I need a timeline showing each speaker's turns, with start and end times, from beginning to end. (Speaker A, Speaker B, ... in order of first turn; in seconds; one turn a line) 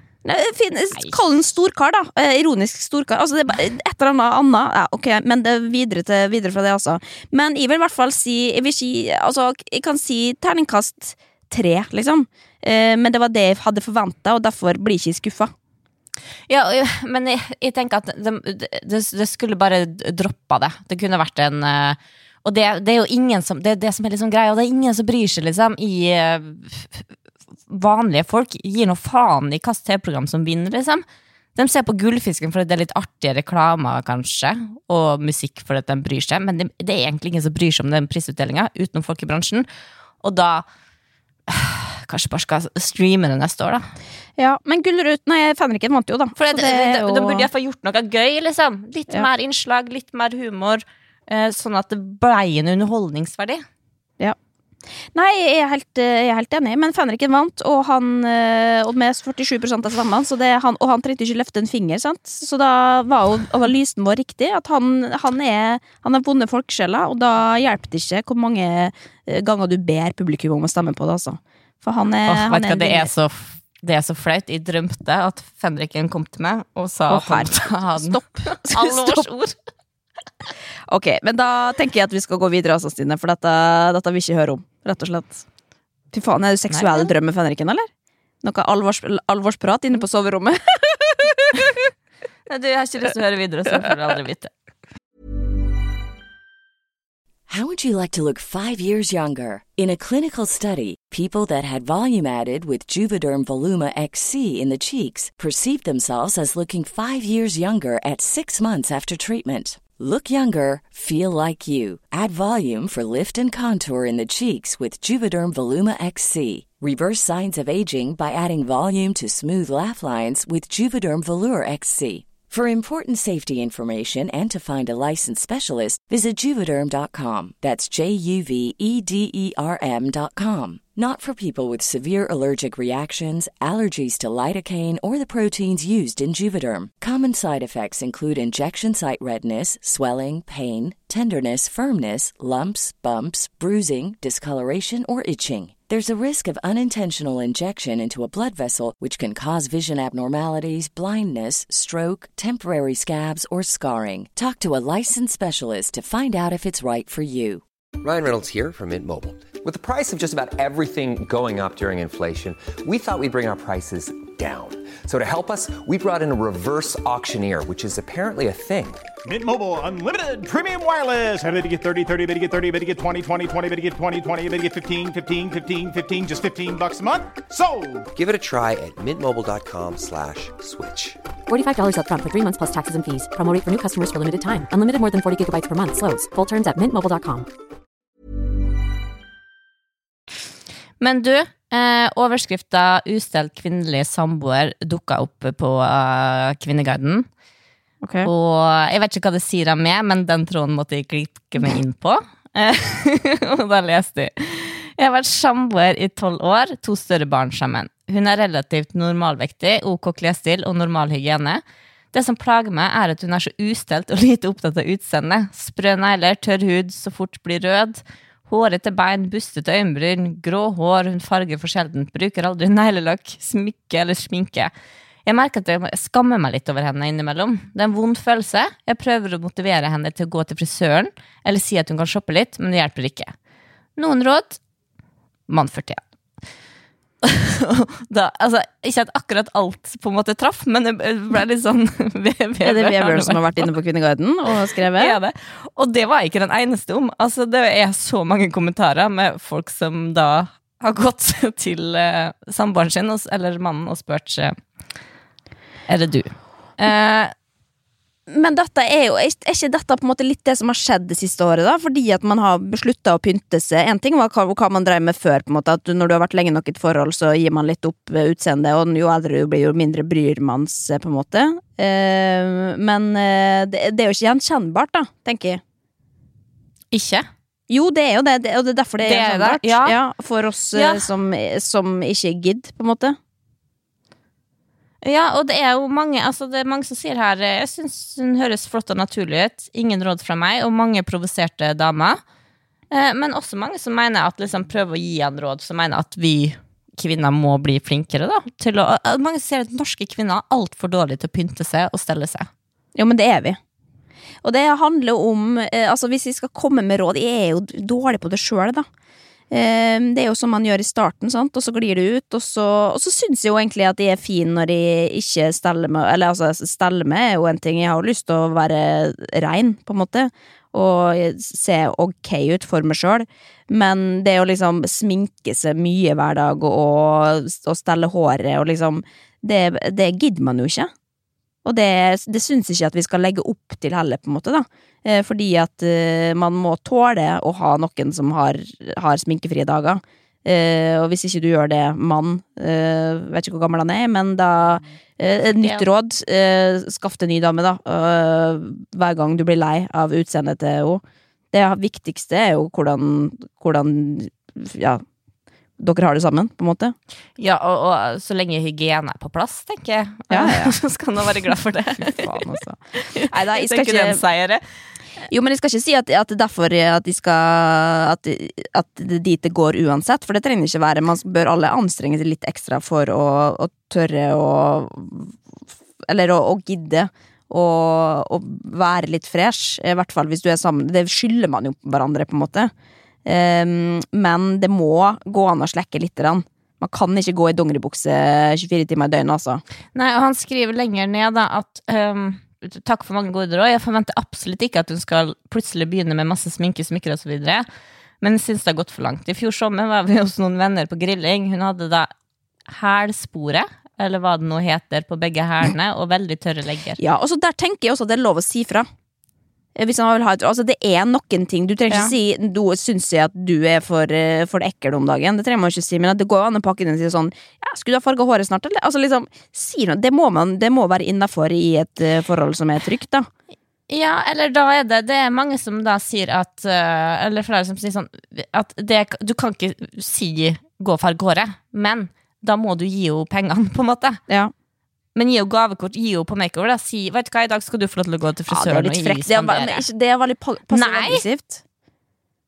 Speaker A: 0.2-15.5
Speaker B: 0.9-1.2
Speaker B: 16.5-27.1
Speaker B: 27.7-31.0
Speaker B: 31.6-39.6
Speaker B: 40.2-40.6
Speaker B: 41.5-43.9
Speaker A: 44.4-47.5
Speaker B: 46.4-53.6
Speaker A: 55.1-73.1
Speaker B: 72.3-79.5
Speaker A: 77.1-79.3
Speaker A: 80.9-85.4
Speaker A: 86.1-87.9
Speaker B: 86.7-87.1
Speaker A: 88.4-91.9
Speaker B: 92.5-94.5
Speaker C: 97.5-157.6
Speaker D: 158.0-169.0
Speaker E: 169.2-178.1
Speaker D: 178.1-181.2
Speaker F: 181.5-187.5
Speaker B: 191.0-197.3
Speaker A: 198.0-198.3
Speaker B: 198.2-211.6
Speaker B: 212.1-224.7
Speaker B: 225.2-233.3
Speaker B: 234.0-234.6
Speaker B: 235.5-236.0
Speaker B: 237.2-243.7
Speaker A: 242.6-245.2
Speaker B: 244.9-254.6
Speaker B: 255.9-257.3
Speaker A: 258.3-275.6
Speaker B: 276.9-277.2
Speaker A: 277.7-283.2
Speaker B: 279.0-280.0
Speaker B: 280.7-281.1
Speaker B: 285.0-292.2
Speaker B: 292.9-302.5
Speaker A: 302.9-303.6
Speaker A: 304.4-308.9
Speaker A: 309.5-330.9
Speaker A: 331.6-355.0
Speaker B: 345.6-345.9
Speaker A: 355.8-356.9
Speaker B: 357.4-362.4
Speaker A: 360.3-360.7
Speaker A: 362.0-364.2
Speaker B: 363.0-364.6
Speaker A: 365.3-375.4
Speaker A: 376.1-382.7
Speaker A: 383.2-389.6
Speaker B: 389.9-397.6
Speaker B: 398.2-402.1
Speaker B: 402.7-407.0
Speaker A: 407.0-408.9
Speaker A: 409.8-423.3
Speaker B: 411.9-412.1
Speaker B: 423.9-434.2
Speaker B: 435.1-439.9
Speaker A: 438.5-441.6
Speaker B: 440.7-441.2